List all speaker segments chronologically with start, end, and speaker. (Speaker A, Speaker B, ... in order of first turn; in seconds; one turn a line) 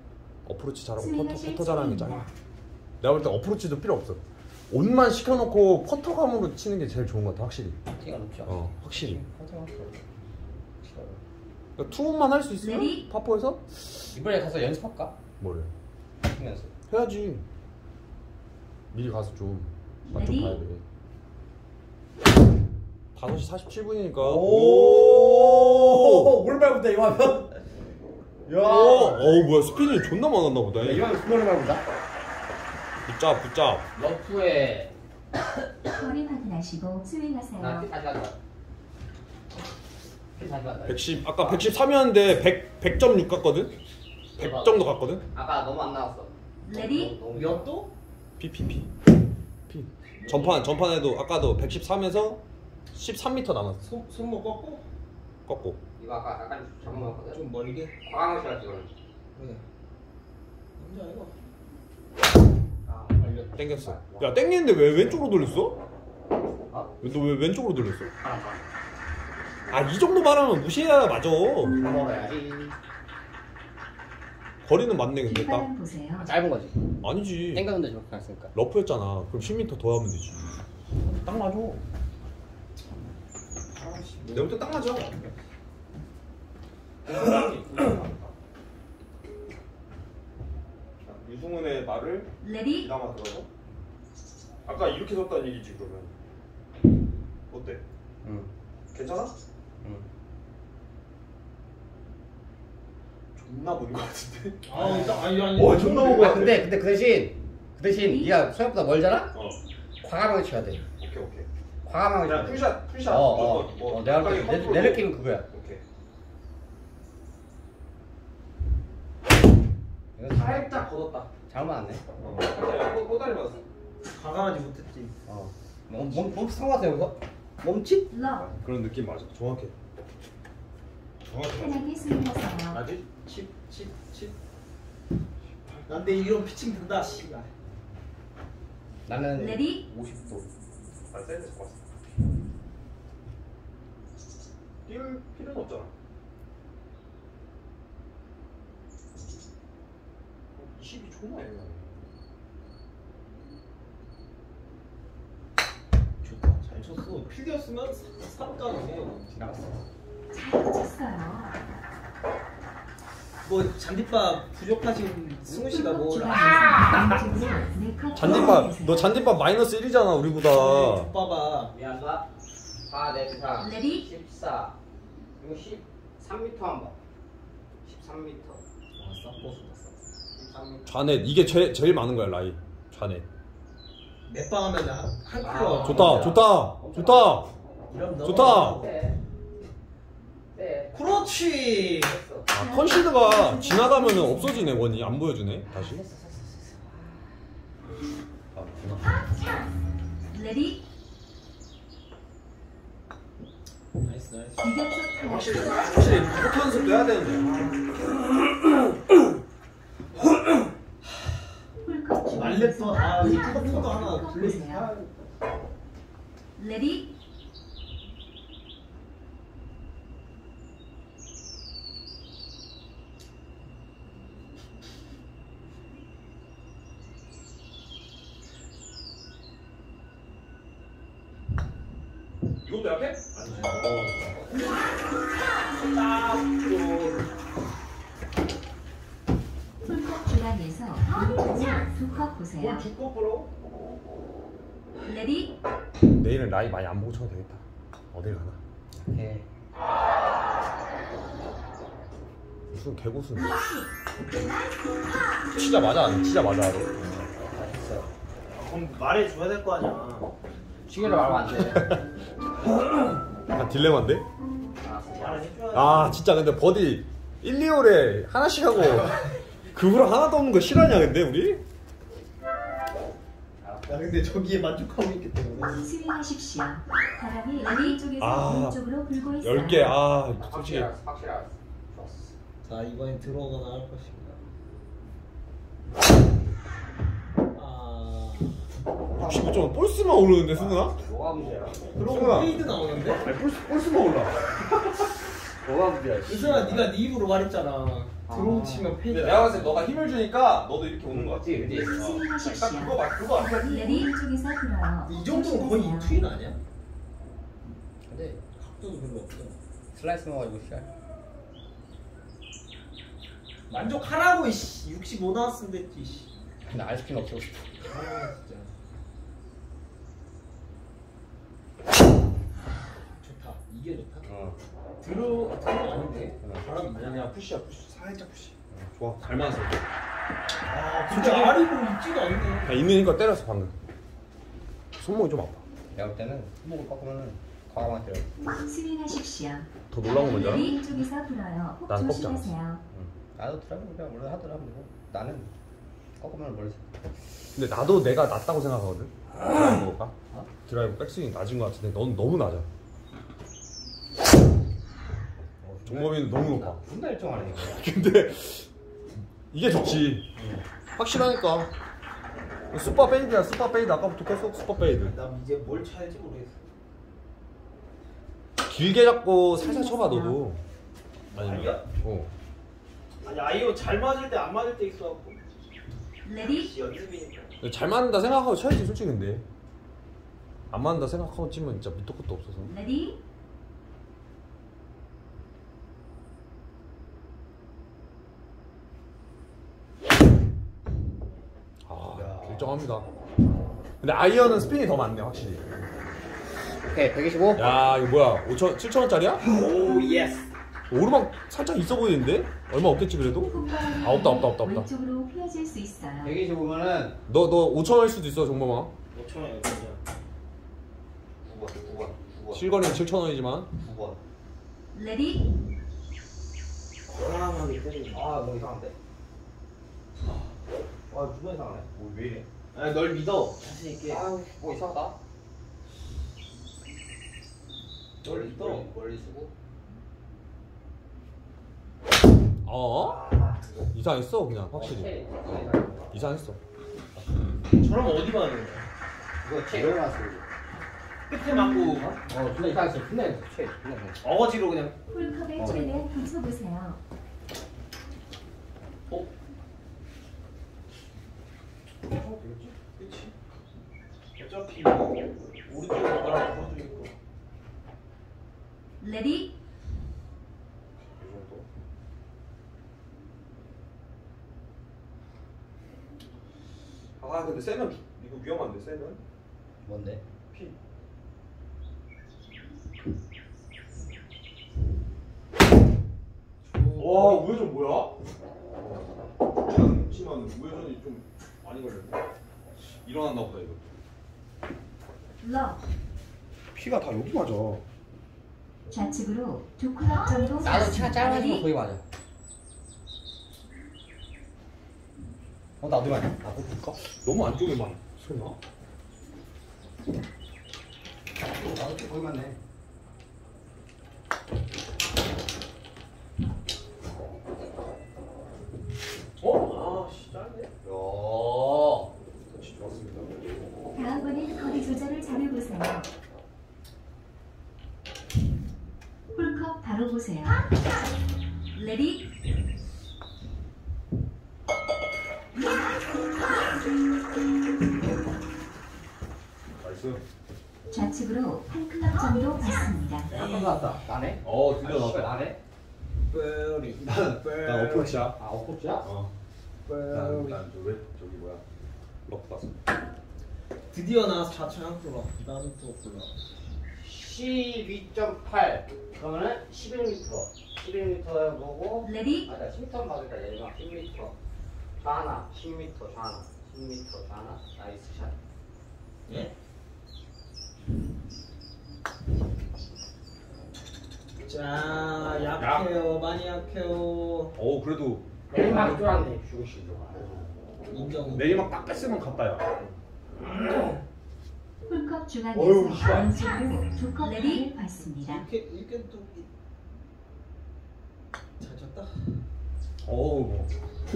Speaker A: 0.4-2.3
Speaker B: 1.0-2.2
Speaker A: 3.0-7.8
Speaker C: 8.0-10.0
Speaker A: 8.4-9.2
Speaker C: 10.8-11.2
Speaker A: 11.8-13.9
Speaker B: 12.6-13.0
Speaker C: 14.1-15.2
Speaker A: 15.4-15.7
Speaker C: 16.2-16.7
Speaker A: 16.9-17.4
Speaker A: 18.9-20.8
Speaker B: 20.1-20.6
Speaker A: 23.1-26.4
Speaker C: 24.2-27.6
Speaker C: 28.5-29.3
Speaker A: 28.6-31.1
Speaker C: 30.8-31.8
Speaker A: 33.0-33.9
Speaker C: 33.9-34.9
Speaker B: 35.8-37.9
Speaker C: 37.6-38.4
Speaker C: 40.4-41.7
Speaker A: 40.9-43.8
Speaker A: 44.4-45.2
Speaker C: 44.4-47.7
Speaker D: 47.3-47.9
Speaker A: 48.4-48.9
Speaker A: 49.7-52.4
Speaker D: 50.1-50.7
Speaker A: 52.9-53.8
Speaker D: 53.8-54.8
Speaker A: 55.5-55.8
Speaker C: 56.0-57.4
Speaker D: 56.9-57.9
Speaker C: 58.0-58.9
Speaker D: 59.3-59.6
Speaker D: 60.8-61.3
Speaker C: 62.8-64.5
Speaker A: 63.6-65.8
Speaker A: 67.0-68.1
Speaker C: 68.2-68.6
Speaker A: 69.7-71.7
Speaker C: 71.7-72.8
Speaker A: 74.6-75.7
Speaker B: 75.3-76.3
Speaker C: 76.2-76.8
Speaker A: 77.0-77.7
Speaker C: 77.5-78.5
Speaker A: 78.5-81.8
Speaker D: 83.8-85.3
Speaker A: 84.3-85.1
Speaker A: 87.0-88.3
Speaker A: 91.0-93.5
Speaker B: 92.4-92.8
Speaker A: 94.6-96.1
Speaker A: 97.5-97.8
Speaker C: 98.2-98.5
Speaker A: 98.9-99.3
Speaker C: 99.8-100.0
Speaker A: 103.3-106.7
Speaker D: 104.6-106.5
Speaker C: 104.8-105.3
Speaker C: 106.1-109.3
Speaker B: 107.8-108.3
Speaker A: 109.3-109.6
Speaker C: 110.0-110.8
Speaker A: 111.0-111.5
Speaker C: 111.8-115.5
Speaker A: 112.2-115.8
Speaker C: 120.2-120.8
Speaker A: 120.3-121.3
Speaker C: 121.5-122.0
Speaker A: 122.2-123.6
Speaker D: 124.1-125.1
Speaker C: 125.3-128.1
Speaker B: 128.1-128.5
Speaker A: 128.5-129.7
Speaker A: 131.2-131.8
Speaker B: 131.5-132.8
Speaker A: 132.7-133.0
Speaker D: 133.1-134.3
Speaker A: 135.6-135.9
Speaker D: 135.9-137.5
Speaker C: 139.1-140.4
Speaker A: 141.1-141.8
Speaker A: 144.8-145.9
Speaker A: 150.5-152.0
Speaker D: 156.2-159.6
Speaker C: 159.3-159.8
Speaker B: 160.3-161.6
Speaker D: 163.4-167.7
Speaker B: 165.5-169.2
Speaker A: 168.1-171.1
Speaker D: 170.5-171.7
Speaker C: 171.7-172.3
Speaker C: 172.9-174.8
Speaker B: 173.6-174.0
Speaker C: 175.4-177.0
Speaker C: 177.8-178.6
Speaker D: 178.9-180.0
Speaker C: 180.3-180.9
Speaker A: 180.8-183.2
Speaker D: 184.3-186.4
Speaker C: 185.4-187.4
Speaker A: 185.8-187.5
Speaker D: 187.9-188.9
Speaker A: 188.2-188.8
Speaker C: 188.2-189.2
Speaker C: 190.5-191.1
Speaker D: 190.9-192.2
Speaker C: 191.7-192.5
Speaker A: 192.5-196.0
Speaker B: 192.5-194.7
Speaker C: 195.7-197.3
Speaker A: 198.5-199.2
Speaker B: 200.3-200.8
Speaker D: 204.0-204.7
Speaker B: 204.6-206.1
Speaker A: 205.2-207.6
Speaker D: 207.4-207.8
Speaker B: 211.8-214.9
Speaker D: 212.3-215.1
Speaker B: 216.6-217.1
Speaker A: 232.6-234.3
Speaker D: 233.5-233.9
Speaker A: 236.4-236.7
Speaker B: 239.8-242.8
Speaker A: 241.6-241.8
Speaker A: 242.5-243.5
Speaker B: 245.0-245.5
Speaker A: 246.1-248.6
Speaker C: 248.9-249.4
Speaker A: 252.7-253.6
Speaker B: 253.4-253.9
Speaker A: 255.5-257.3
Speaker C: 257.4-258.1
Speaker D: 258.5-260.3
Speaker C: 260.9-262.0
Speaker A: 263.5-264.2
Speaker C: 264.8-265.5
Speaker D: 265.1-266.2
Speaker A: 265.7-271.6
Speaker C: 273.6-274.2
Speaker D: 273.9-275.8
Speaker B: 275.7-280.0
Speaker A: 278.2-278.8
Speaker A: 279.4-280.9
Speaker C: 280.4-282.4
Speaker D: 282.6-284.4
Speaker D: 287.5-288.6
Speaker C: 289.1-291.9
Speaker A: 289.1-294.4
Speaker D: 291.9-293.2
Speaker C: 295.6-296.9
Speaker D: 296.2-300.0
Speaker C: 298.3-299.0
Speaker A: 299.1-304.1
Speaker C: 301.1-302.1
Speaker B: 301.7-306.2
Speaker D: 305.0-306.6
Speaker C: 308.1-308.4
Speaker D: 308.6-309.6
Speaker C: 309.9-310.9
Speaker D: 313.7-316.3
Speaker C: 316.6-317.7
Speaker D: 317.8-318.7
Speaker D: 323.2-324.3
Speaker C: 324.2-324.6
Speaker D: 325.0-327.3
Speaker A: 326.6-329.8
Speaker D: 330.7-332.9
Speaker A: 331.1-331.7
Speaker A: 332.6-333.7
Speaker A: 335.0-335.6
Speaker C: 335.9-338.3
Speaker B: 338.6-342.8
Speaker A: 339.9-340.7
Speaker A: 341.9-342.5
Speaker C: 342.9-345.5
Speaker C: 346.2-346.9
Speaker A: 347.6-350.1
Speaker A: 350.6-352.7
Speaker C: 355.6-357.8
Speaker A: 355.8-356.8
Speaker A: 357.6-358.7
Speaker A: 359.5-360.3
Speaker C: 360.4-360.6
Speaker A: 360.9-361.7
Speaker A: 362.7-365.1
Speaker D: 364.9-366.6
Speaker A: 368.6-370.6
Speaker B: 369.6-370.4
Speaker D: 371.3-371.9
Speaker A: 371.3-372.3
Speaker D: 373.2-375.4
Speaker B: 376.2-376.7
Speaker D: 376.4-377.5
Speaker A: 377.6-379.4
Speaker A: 380.7-382.7
Speaker B: 382.6-383.2
Speaker A: 391.9-393.1
Speaker D: 392.1-392.7
Speaker A: 394.0-395.6
Speaker C: 396.8-397.7
Speaker A: 397.6-399.4
Speaker D: 399.4-400.5
Speaker A: 400.9-404.9
Speaker B: 403.5-406.4
Speaker C: 406.2-407.2
Speaker A: 407.3-408.9
Speaker D: 409.1-410.0
Speaker C: 411.4-412.8
Speaker A: 412.5-413.7
Speaker C: 413.8-414.2
Speaker B: 414.9-415.4
Speaker D: 417.1-418.3
Speaker C: 418.1-418.9
Speaker C: 421.1-422.1
Speaker D: 422.7-424.2
Speaker C: 424.1-425.2
Speaker D: 428.2-428.9
Speaker C: 428.2-429.5
Speaker A: 432.6-433.2
Speaker D: 433.2-433.7
Speaker A: 433.9-435.1
Speaker C: 434.7-436.2
Speaker A: 436.1-436.6
Speaker D: 437.7-438.9
Speaker C: 439.4-440.4
Speaker D: 441.3-442.9
Speaker C: 442.0-444.2
Speaker D: 444.2-445.0
Speaker B: 445.1-447.0
Speaker C: 445.6-446.0
Speaker A: 452.1-452.7
Speaker D: 452.9-453.3
Speaker D: 454.4-457.1
Speaker B: 459.0-459.5
Speaker A: 461.0-461.7
Speaker A: 467.2-469.2
Speaker C: 469.8-470.2
Speaker A: 470.5-470.8
Speaker D: 476.6-477.5
Speaker A: 477.0-478.1
Speaker A: 478.8-482.2
Speaker A: 482.8-483.9
Speaker B: 485.4-485.8
Speaker C: 486.8-487.8
Speaker B: 488.9-491.7
Speaker C: 490.6-492.0
Speaker C: 495.8-497.0
Speaker A: 497.0-498.6
Speaker C: 501.5-502.6
Speaker D: 509.4-510.1
Speaker A: 509.5-510.7
Speaker C: 510.8-512.1
Speaker A: 512.5-513.4
Speaker B: 513.9-516.1
Speaker B: 519.3-520.7
Speaker B: 521.7-522.3
Speaker A: 529.8-530.2
Speaker B: 530.9-533.3
Speaker D: 533.3-533.9
Speaker C: 533.3-535.6
Speaker A: 534.4-535.4
Speaker D: 536.3-538.2
Speaker A: 537.4-538.4
Speaker C: 538.4-539.1
Speaker A: 539.0-539.3
Speaker C: 539.9-540.6
Speaker A: 540.1-541.6
Speaker A: 542.3-542.7
Speaker D: 543.9-546.3
Speaker C: 547.0-554.3
Speaker B: 552.1-552.4
Speaker C: 555.0-558.3
Speaker D: 559.3-559.5
Speaker D: 564.4-567.5
Speaker A: 565.6-565.9
Speaker A: 567.5-568.8
Speaker C: 568.5-570.5
Speaker D: 570.9-571.7
Speaker A: 571.3-572.7
Speaker B: 574.9-578.4
Speaker C: 575.5-576.3
Speaker D: 578.2-579.5
Speaker D: 581.6-582.1
Speaker A: 583.0-583.7